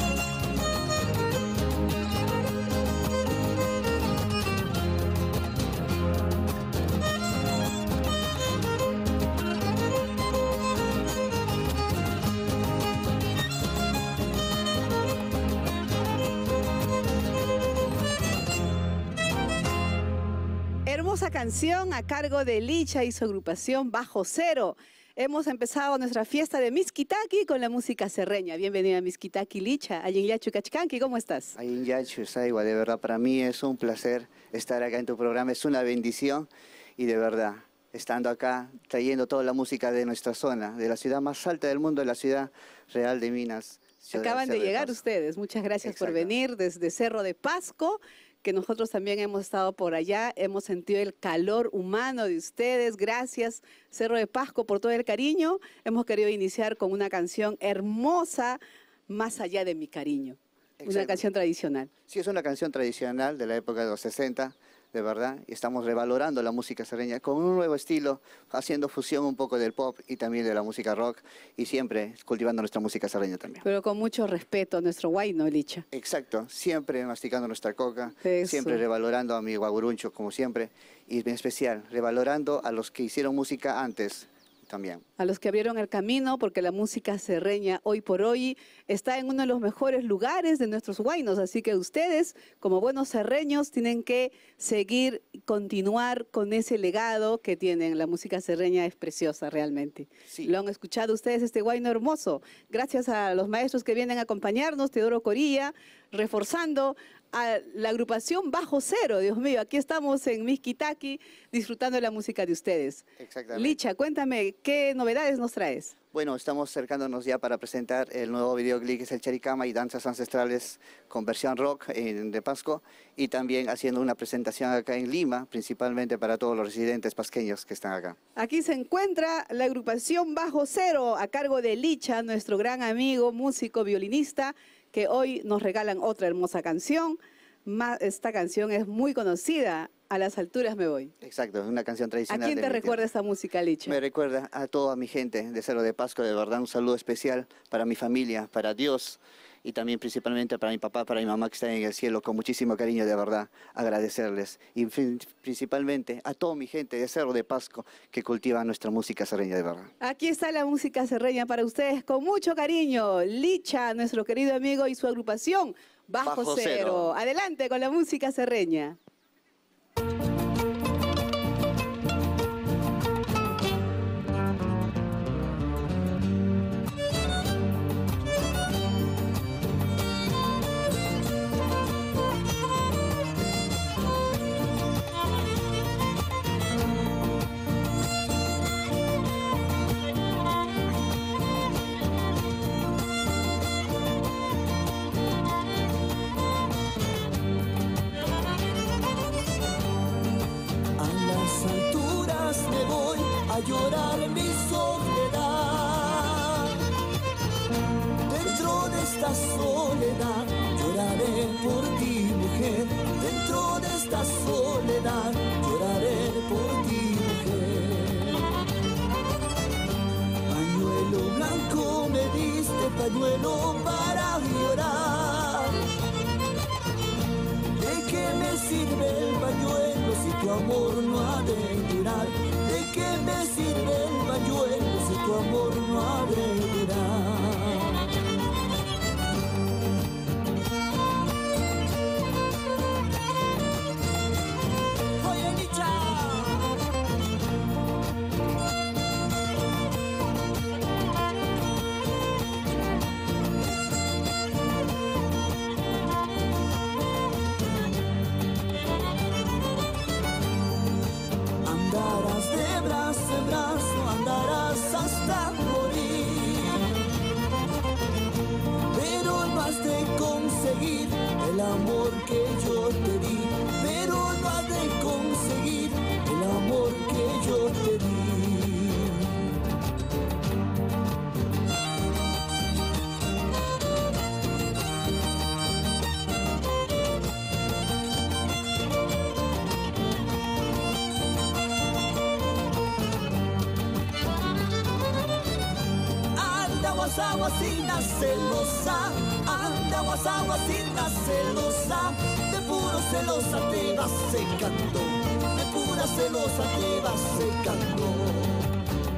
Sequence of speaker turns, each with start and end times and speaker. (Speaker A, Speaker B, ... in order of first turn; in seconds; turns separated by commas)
Speaker A: 20.9-31.6, Speaker B: 31.6-45.0, Speaker A: 44.1-61.9, Speaker B: 45.8-46.3, Speaker B: 60.8-61.3, Speaker B: 62.1-73.6, Speaker A: 73.6-75.9, Speaker B: 75.9-85.0, Speaker A: 78.2-78.8, Speaker A: 85.2-115.9, Speaker B: 113.2-113.8, Speaker B: 116.1-128.2, Speaker A: 128.4-141.1, Speaker B: 141.2-143.1, Speaker A: 142.3-144.0, Speaker B: 143.9-159.9, Speaker A: 160.0-169.0, Speaker B: 166.2-167.2, Speaker C: 201.0-206.9, Speaker C: 208.2-218.5, Speaker C: 220.5-225.9, Speaker C: 227.7-238.1, Speaker C: 245.2-246.8, Speaker C: 261.6-267.0, Speaker C: 268.9-279.6, Speaker C: 296.4-308.8